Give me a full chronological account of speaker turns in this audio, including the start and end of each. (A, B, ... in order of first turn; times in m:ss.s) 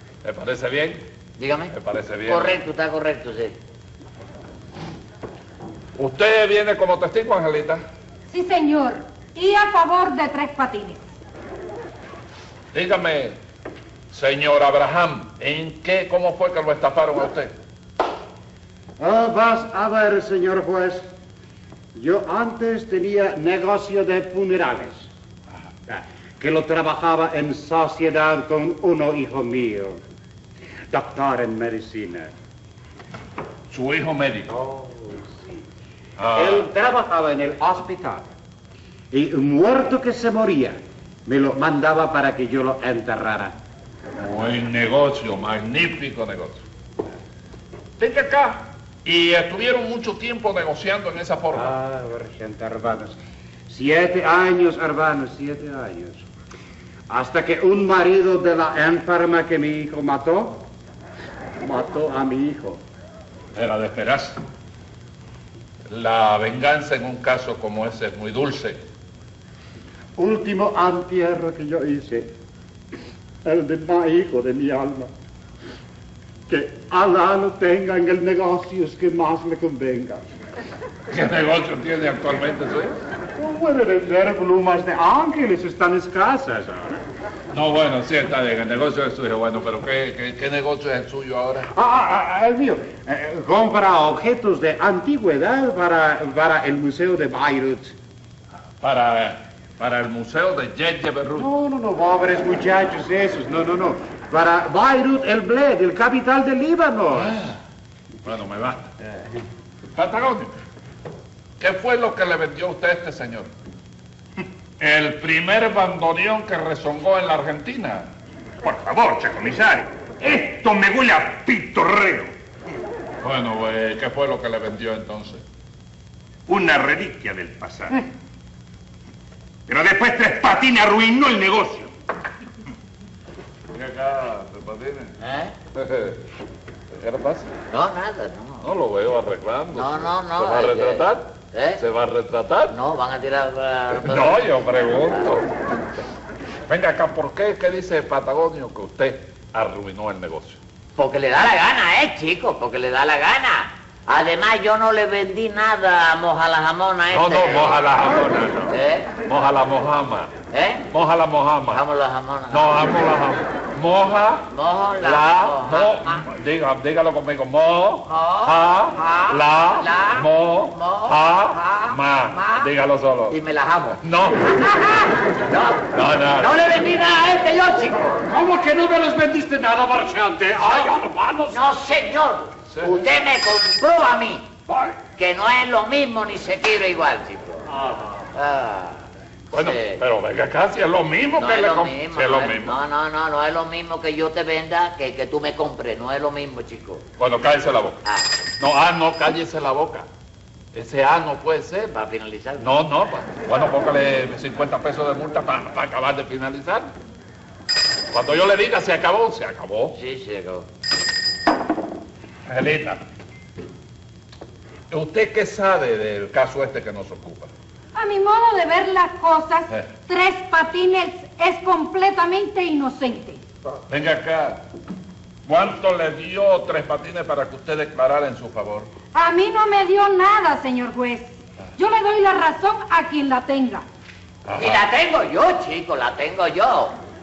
0:00.2-0:01.1 A
0:01.4-0:01.7 B
0:01.7-0:02.6 A
0:02.3-0:03.6 B
0:06.0-0:07.8 A
0:08.3-0:11.0 C
0:12.7-0:13.4 A
0:14.1-0:17.5 A
0:19.0-0:21.1 D
0:22.0-0:25.1 D
0:25.9-0:30.0 D
0:30.9-0:32.3 D
0:33.7-0:34.5 A
0:34.5-0:35.7 D
0:36.2-0:36.7 A
0:36.4-0:38.3 D
0:39.1-0:43.6 D
0:44.2-0:46.6 A
0:48.0-0:51.7 A
0:51.5-0:56.2 D
0:57.1-1:00.7 D
1:01.6-1:02.8 D
1:03.5-1:04.4 A
1:05.9-1:08.8 A
1:10.2-1:12.3 D
1:13.4-1:15.1 D
1:16.5-1:20.3 D
1:21.1-1:23.0 A
1:23.4-1:27.0 D
1:27.5-1:31.7 A
1:31.7-1:37.9 D
1:38.8-1:41.5 A
1:41.3-1:47.5 D
1:47.1-1:47.6 A
1:48.2-1:49.0 A
1:50.0-1:50.5 A
1:51.6-1:53.5 A
1:54.8-1:58.1 A
1:58.6-2:02.3 E
2:03.2-2:05.4 A
2:06.5-2:08.1 E
2:09.7-2:11.9 E
2:13.7-2:15.2 A
2:15.2-2:15.6 B
2:15.8-2:16.2 A
2:16.9-2:17.5 A
2:17.7-2:18.7 B
2:18.6-2:22.8 A
2:19.7-2:21.8 B
2:22.7-2:24.6 B
2:23.9-2:25.5 A
2:26.7-2:30.6 A
2:31.0-2:37.9 B
2:37.1-2:40.3 A
2:38.7-2:39.1 B
2:40.5-2:40.9 B
2:40.9-2:41.8 A
2:41.7-2:42.8 B
2:42.5-2:44.5 A
2:44.5-2:46.3 B
2:45.0-2:53.4 A
2:48.1-2:52.7 B
2:53.3-2:54.0 B
2:54.0-2:54.6 A
2:54.6-2:58.2 B
2:55.9-2:56.6 A
2:58.2-3:01.6 D
3:01.5-3:04.5 B
3:02.7-3:03.0 A
3:05.2-3:07.7 B
3:08.3-3:10.0 B
3:09.5-3:12.8 A
3:11.4-3:17.1 B
3:17.2-3:18.0 A
3:18.0-3:18.3 B
3:18.6-3:20.1 A
3:20.7-3:21.9 A
3:21.9-3:22.7 B
3:22.6-3:26.9 A
3:28.1-3:30.0 A
3:29.9-3:30.7 B
3:32.5-3:33.0 A
3:34.9-3:37.5 A
3:38.0-3:43.4 C
3:43.9-3:44.6 A
3:45.5-3:48.9 A
3:49.1-3:53.9 C
3:54.5-3:54.8 A
3:54.6-3:57.0 B